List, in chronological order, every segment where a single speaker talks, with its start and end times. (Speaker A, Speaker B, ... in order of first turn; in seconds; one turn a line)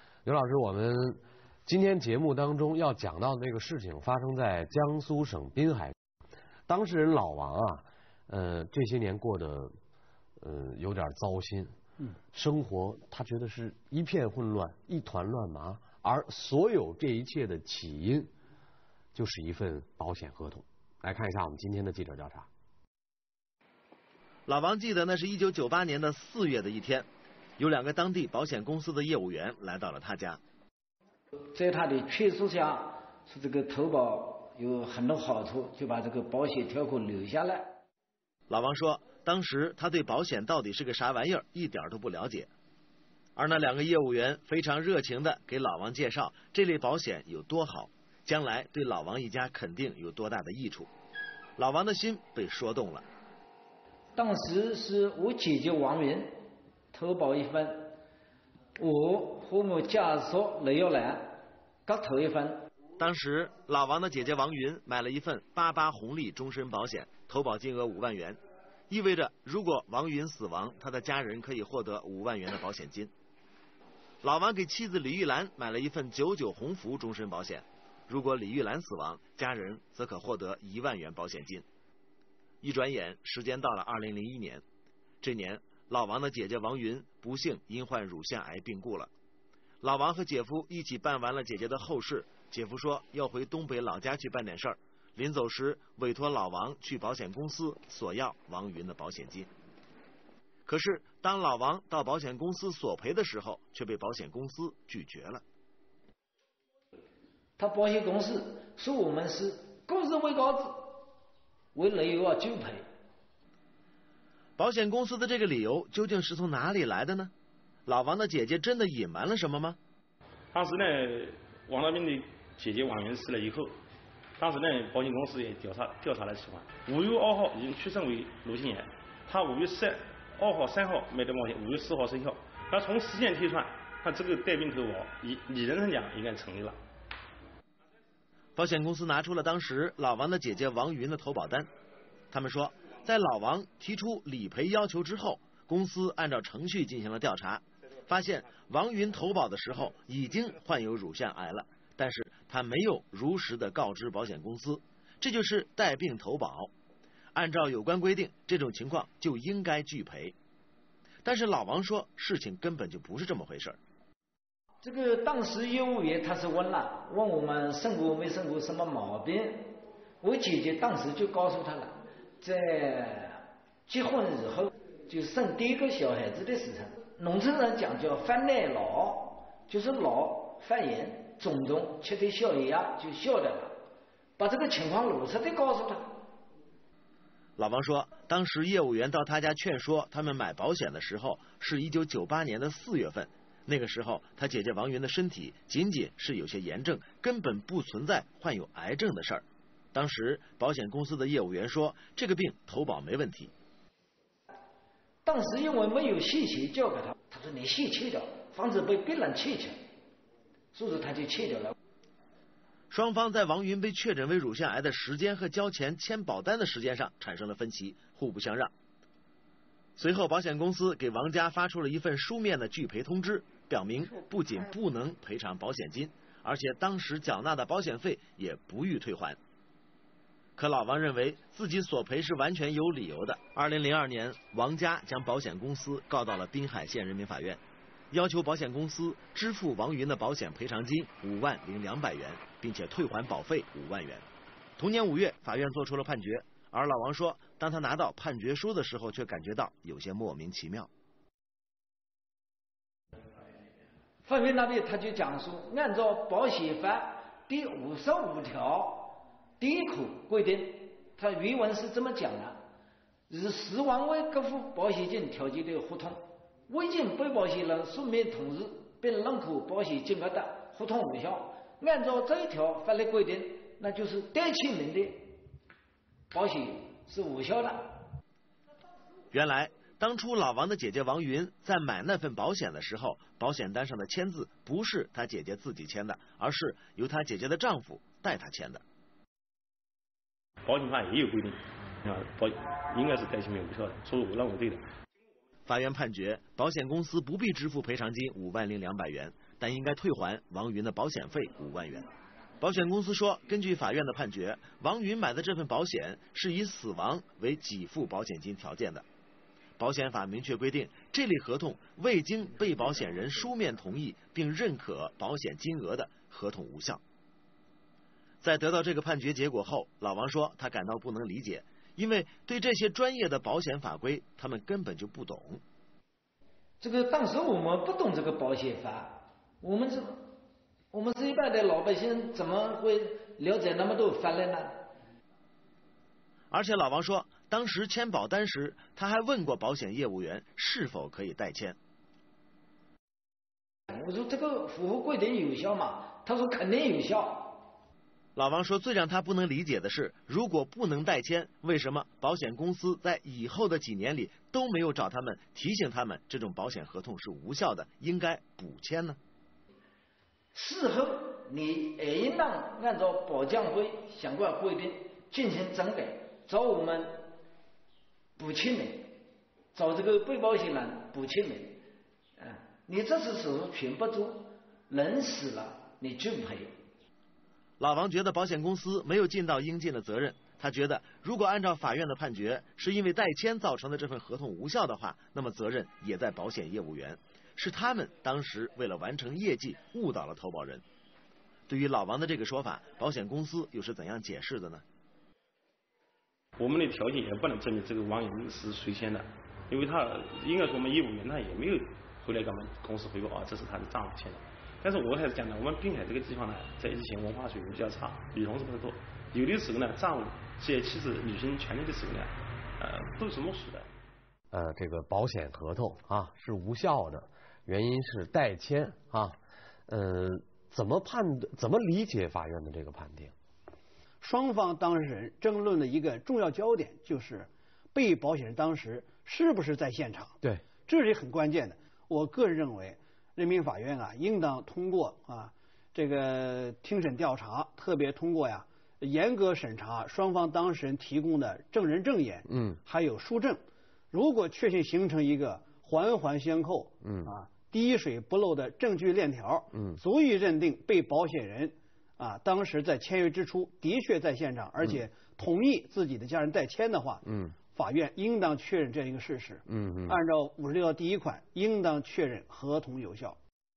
Speaker A: 0.2-5.9
Speaker A: 6.7-9.7
Speaker A: 10.4-11.7
Speaker A: 12.3-18.3
Speaker A: 19.1-22.5
Speaker B: 24.5-27.1
Speaker B: 27.6-30.4
Speaker C: 31.5-37.7
Speaker B: 38.5-42.5
Speaker B: 43.4-50.9
Speaker B: 51.6-53.0
Speaker C: 54.1-56.4
Speaker C: 56.9-57.9
Speaker C: 58.8-62.6
Speaker B: 63.0-73.1
Speaker B: 74.2-81.6
Speaker B: 82.6-84.6
Speaker B: 85.2-89.1
Speaker B: 89.8-99.5
Speaker B: 100.7-105.4
Speaker C: 107.6-111.1
Speaker C: 111.7-112.8
Speaker B: 114.6-117.3
Speaker B: 117.8-119.8
Speaker D: 120.5-123.7
Speaker D: 124.4-136.8
Speaker B: 138.6-141.7
Speaker B: 142.3-156.7
Speaker B: 157.3-160.3
Speaker B: 161.2-163.8
Speaker C: 164.8-183.7
Speaker C: 184.4-186.2
Speaker B: 187.6-203.5
Speaker C: 205.2-209.8
Speaker C: 210.7-211.7
Speaker B: 212.9-218.7
Speaker B: 219.9-229.4
Speaker B: 230.6-237.6
Speaker B: 238.1-244.2
Speaker B: 244.8-250.9
Speaker C: 254.2-262.6
Speaker C: 263.3-275.3
Speaker C: 276.3-278.1
Speaker B: 279.3-288.8
Speaker D: 290.6-294.9
Speaker B: 295.6-309.0
Speaker B: 309.8-317.0
Speaker B: 318.4-325.6
Speaker C: 326.8-330.3
Speaker C: 330.9-334.8
Speaker B: 336.5-341.8
Speaker C: 343.9-347.6
Speaker B: 348.4-359.2
Speaker C: 360.5-367.3
Speaker C: 368.4-369.2
Speaker C: 369.7-371.8
Speaker C: 372.4-376.7
Speaker B: 377.8-390.8
Speaker B: 391.7-394.8
Speaker D: 396.6-413.9
Speaker A: 414.5-419.4
Speaker A: 419.9-423.3
Speaker E: 424.2-430.3
Speaker E: 430.9-463.4
Speaker A: 442.5-442.8
Speaker A: 447.0-447.3
Speaker A: 457.2-457.6
Speaker A: 459.7-460.2